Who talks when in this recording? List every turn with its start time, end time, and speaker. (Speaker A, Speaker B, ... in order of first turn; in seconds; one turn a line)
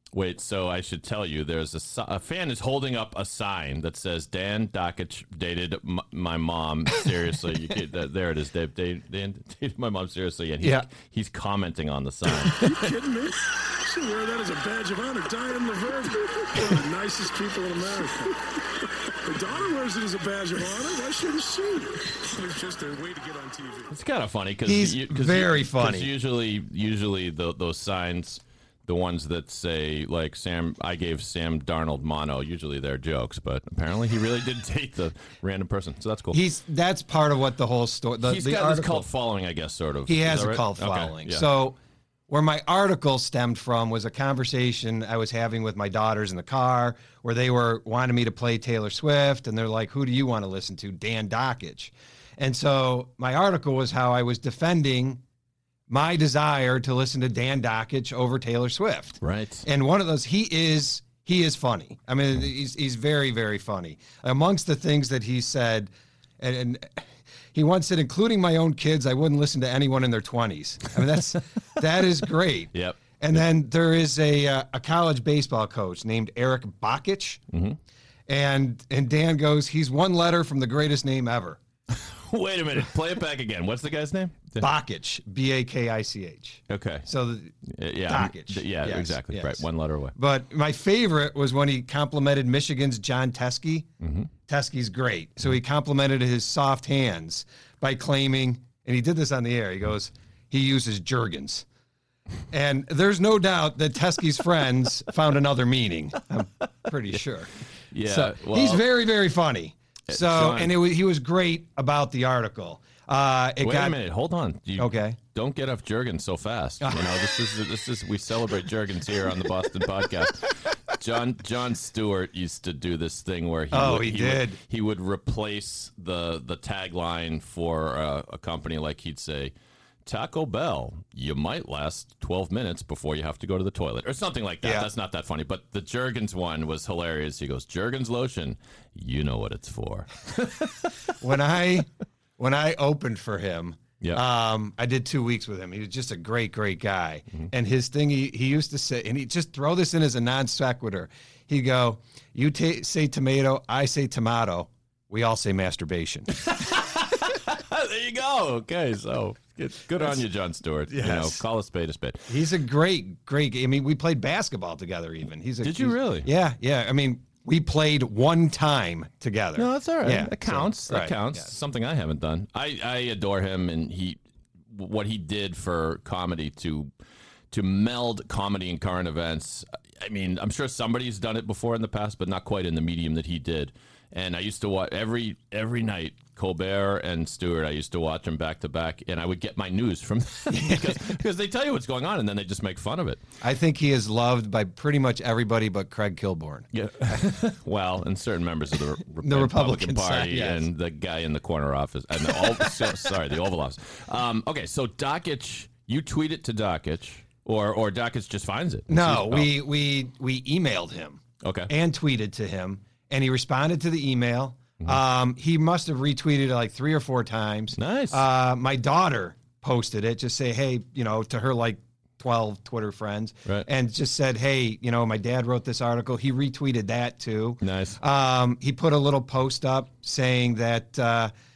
Speaker A: 0.1-12.6
Speaker B: 10.6-10.9
Speaker C: 12.5-18.4
Speaker C: 19.2-23.9
Speaker A: 23.9-36.4
Speaker B: 24.7-26.1
Speaker B: 36.3-39.1
Speaker A: 38.2-41.5
Speaker B: 40.1-41.8
Speaker B: 42.3-55.2
Speaker B: 55.9-67.0
Speaker A: 59.2-59.7
Speaker B: 67.5-77.4
Speaker A: 72.7-73.4
Speaker A: 77.5-77.8
Speaker B: 78.3-81.6
Speaker A: 81.9-84.7
Speaker B: 84.6-93.9
Speaker A: 86.7-87.1
Speaker A: 87.7-90.1
Speaker A: 94.0-94.3
Speaker B: 94.5-101.7
Speaker B: 102.5-114.0
Speaker A: 107.9-108.8
Speaker A: 110.1-110.8
Speaker A: 113.6-129.5
Speaker B: 114.8-115.2
Speaker B: 123.7-124.6
Speaker A: 130.1-140.9
Speaker B: 134.6-134.9
Speaker B: 141.2-156.3
Speaker A: 156.4-162.3
Speaker B: 160.9-161.4
Speaker B: 162.3-171.5
Speaker A: 165.6-166.3
Speaker A: 169.6-174.2
Speaker A: 174.7-176.9
Speaker A: 177.5-193.2
Speaker B: 190.5-191.1
Speaker B: 193.4-196.7
Speaker A: 196.7-209.5
Speaker B: 199.2-200.7
Speaker B: 208.9-231.3
Speaker A: 211.4-211.7
Speaker A: 217.8-218.2
Speaker A: 227.6-228.0